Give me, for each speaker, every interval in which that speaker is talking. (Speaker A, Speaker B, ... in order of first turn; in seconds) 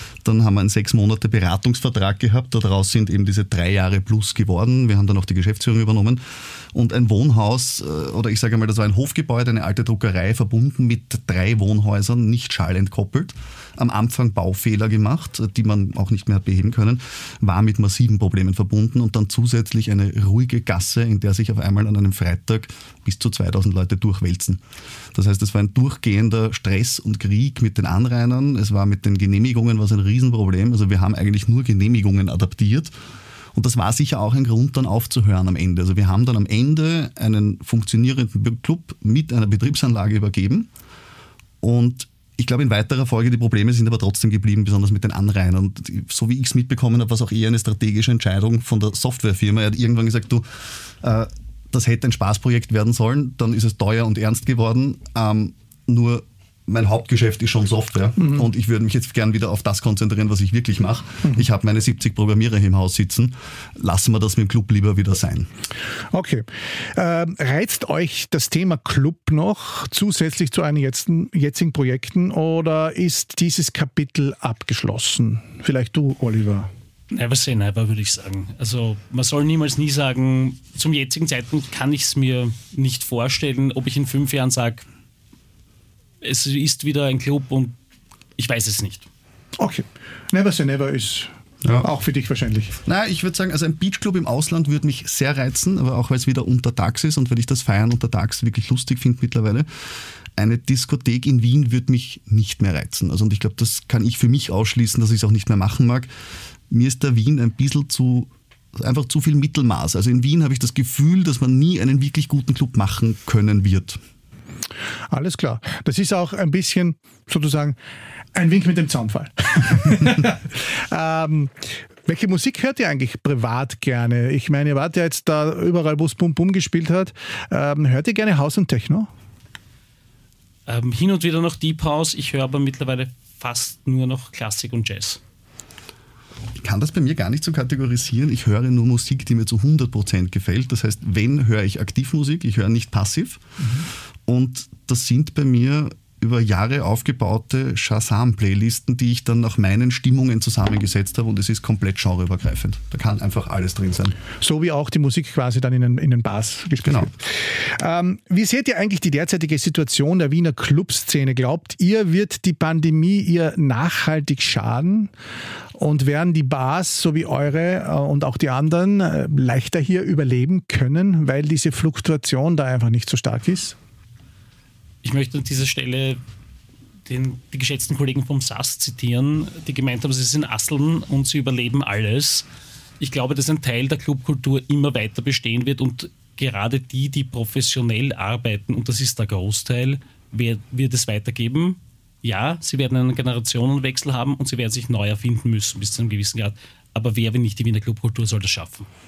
Speaker A: 0.2-6.2, 6.7-24.6, 25.1-32.9, 33.5-40.7, 41.6-65.5, 92.8-99.7, 100.4-106.1, 106.7-114.0, 136.6-143.4, 144.3-154.2, 156.8-157.1
Speaker B: 66.1-76.7, 89.6-92.8, 115.1-117.8, 118.3-129.1, 154.4-165.1, 165.7-173.8
Speaker C: 77.1-84.8, 86.2-87.8, 88.4-89.1, 130.7-135.2, 175.0-176.2, 177.1-182.5, 183.0-198.9